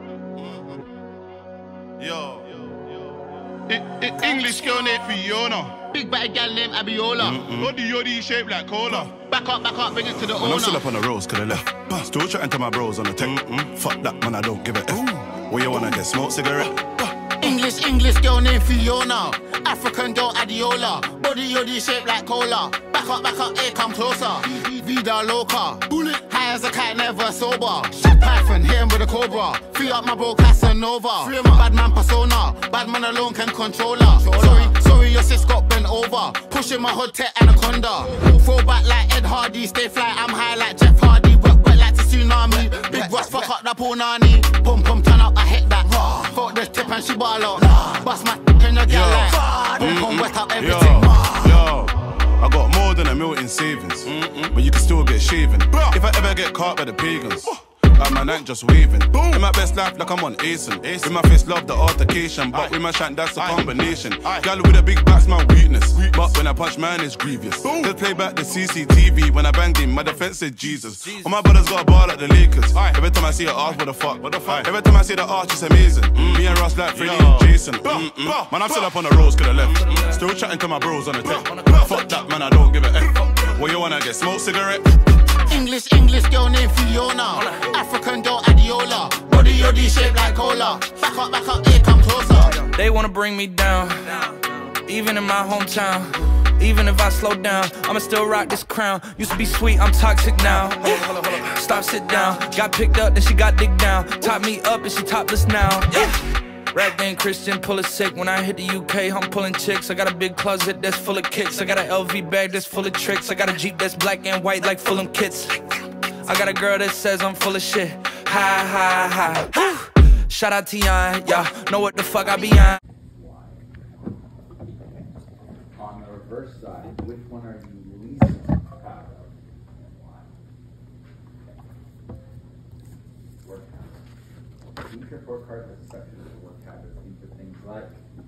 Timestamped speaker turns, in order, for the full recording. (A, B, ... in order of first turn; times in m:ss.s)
0:02.0-0:03.0 A
0:03.7-0:05.7 A
0:04.1-0:05.1 B
0:04.4-0:05.0 C
0:05.9-0:07.5 B
0:07.2-0:07.7 C
0:07.5-0:09.1 A
0:09.1-0:10.9 B
0:10.3-0:17.5 C
0:13.2-0:13.5 A
0:14.9-0:15.2 A
0:17.4-0:51.7 B
0:42.9-0:43.2 A
0:48.9-1:24.9 C
0:49.3-0:49.8 A
0:54.0-0:54.5 A
0:55.7-0:56.0 A
0:59.1-0:59.4 A
1:00.8-1:01.2 A
1:03.4-1:04.4 A
1:05.9-1:06.4 A
1:07.6-1:07.9 A
1:17.0-1:18.8 A
1:19.6-1:20.2 D
1:21.4-1:22.2 D
1:25.5-1:32.6 B
1:27.3-1:27.7 D
1:32.6-1:46.1 D
1:46.7-1:55.6 D
1:56.2-2:02.8 D
2:03.1-2:03.6 E
2:05.7-2:10.3 E
2:13.4-2:14.0 E
2:14.8-2:18.0 E